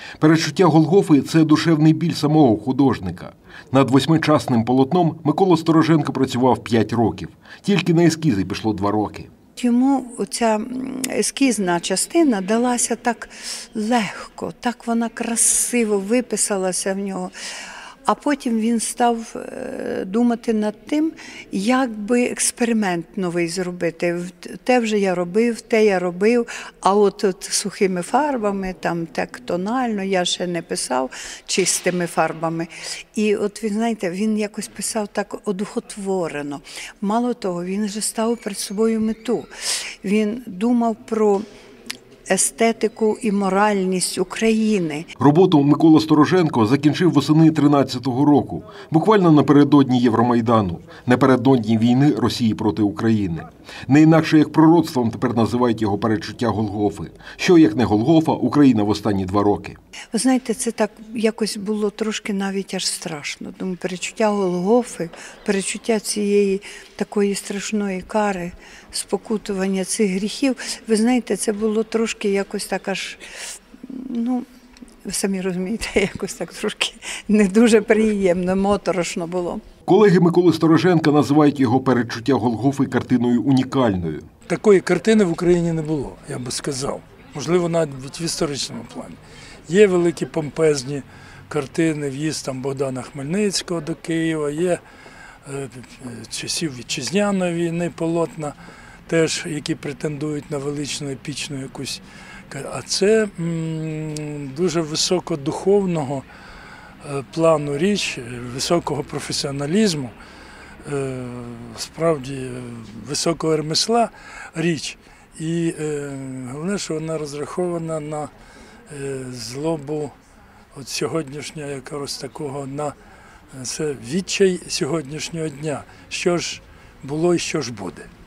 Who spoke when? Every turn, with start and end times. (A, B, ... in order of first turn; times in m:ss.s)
0:00.2-0:09.3 A
0:09.6-0:17.3 B
0:18.1-0:39.5 B
0:40.0-0:41.4 B
0:42.3-0:45.1 B
0:45.2-0:59.8 A
1:00.1-1:13.2 B
1:13.8-1:14.4 B
1:15.0-1:19.6 B
1:19.8-1:24.3 A
1:24.5-1:34.8 C
1:35.4-1:38.6 C
1:39.1-1:46.2 C
1:47.0-1:50.1 C
1:50.8-1:58.3 C
1:58.9-2:00.1 C
2:00.7-2:02.9 C
2:03.5-2:08.1 C